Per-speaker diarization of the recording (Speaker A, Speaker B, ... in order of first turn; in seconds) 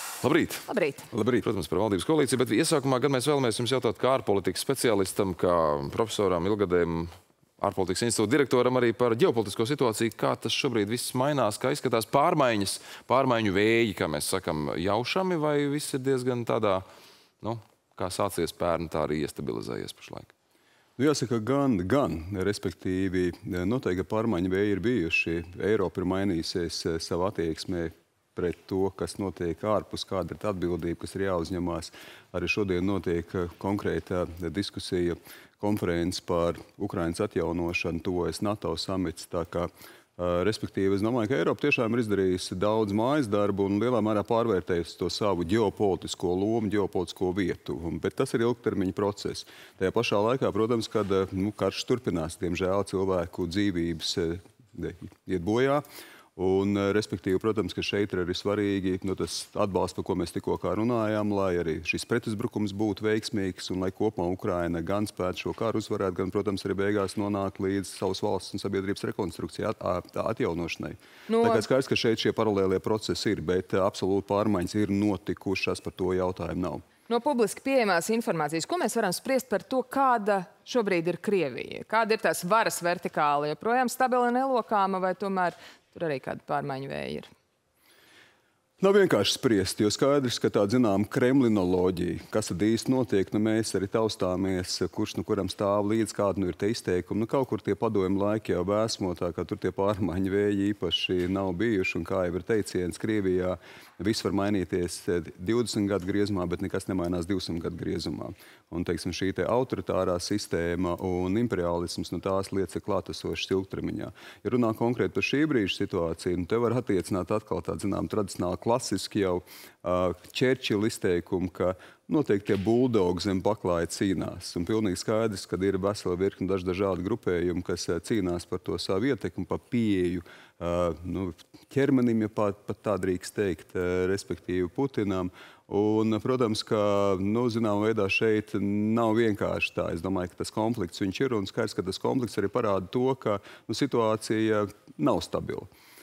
Speaker A: 0.2-0.7, 1.4-16.8, 17.4-20.3
Speaker B: 0.7-1.1, 71.3-71.7, 77.1-87.3
Speaker C: 1.1-1.4, 21.0-55.8, 56.4-76.8, 88.8-145.7